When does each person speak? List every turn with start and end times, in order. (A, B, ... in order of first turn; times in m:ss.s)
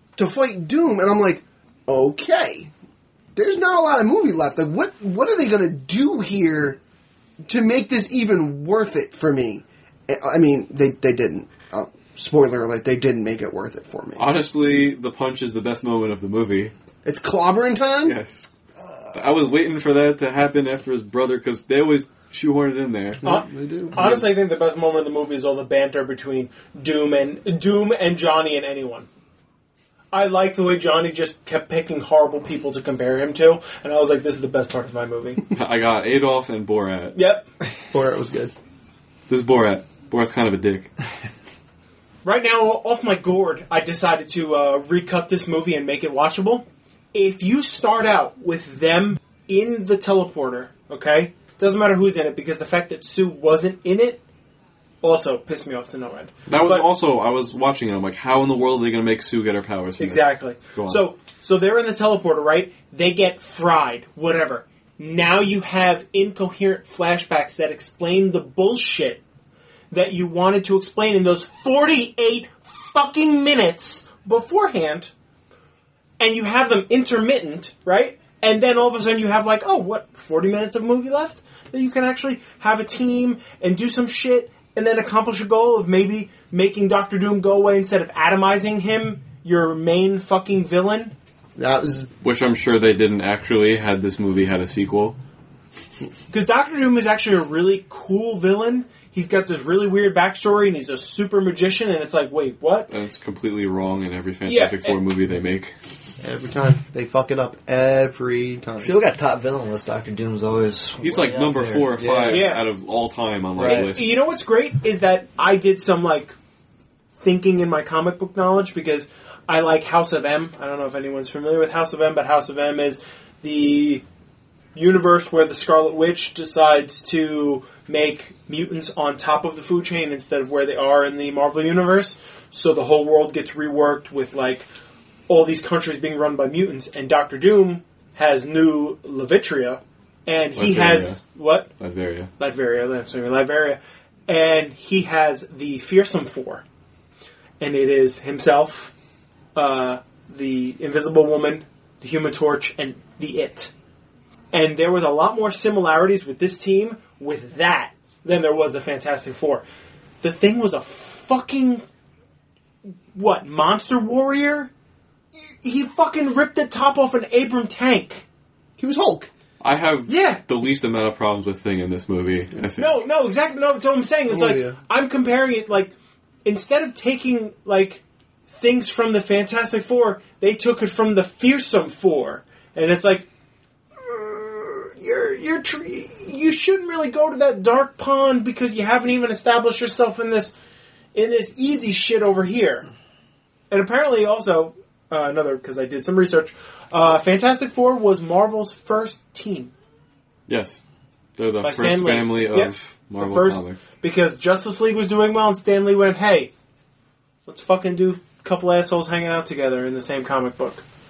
0:00.2-0:02.7 A
0:03.4-0:06.8 A
0:07.5-0:14.3 A
0:14.2-0:16.7 B
0:17.0-0:18.2 A
0:18.0-0:18.5 B
0:19.1-0:23.2 B
0:23.2-0:24.1 A
0:23.2-0:29.1 C
0:24.0-0:24.2 B
0:30.1-0:35.4 C
0:35.5-0:37.2 B
0:37.1-0:37.4 C
0:37.9-0:38.5 A
0:39.3-0:40.9 B
0:42.2-0:54.2 C
0:55.0-0:56.9 C
0:56.5-1:01.0 B
1:00.0-1:09.2 C
1:09.9-1:15.1 C
1:16.2-1:31.1 C
1:31.6-1:32.1 A
1:32.2-1:35.2 B
1:36.3-1:42.9 C
1:42.9-1:45.7 B
1:44.5-1:45.0 C
1:46.2-1:49.0 A
1:48.8-1:52.5 D
1:51.0-1:54.2 B
1:52.3-1:52.7 C
1:53.6-1:53.9 D
1:53.6-1:56.4 C
1:57.2-2:04.0 C
2:04.7-2:14.7 C
2:15.3-2:21.7 C
2:20.6-2:21.2 B
2:21.8-2:22.3 B
2:22.4-2:26.6 C
2:27.6-2:28.9 C
2:29.6-2:33.7 C
2:34.5-2:39.6 C
2:40.2-2:41.8 C
2:43.1-2:44.7 C
2:45.6-2:48.2 C
2:48.8-2:49.3 A
2:49.6-2:53.0 B
2:50.1-2:50.4 C
2:52.8-2:55.9 C
2:54.3-2:54.8 A
2:56.4-3:03.3 C
3:04.0-3:10.6 C
3:11.1-3:12.9 C
3:13.7-3:19.7 C
3:20.5-3:20.8 B
3:21.4-3:23.8 B
3:21.6-3:26.5 C
3:27.5-3:30.8 C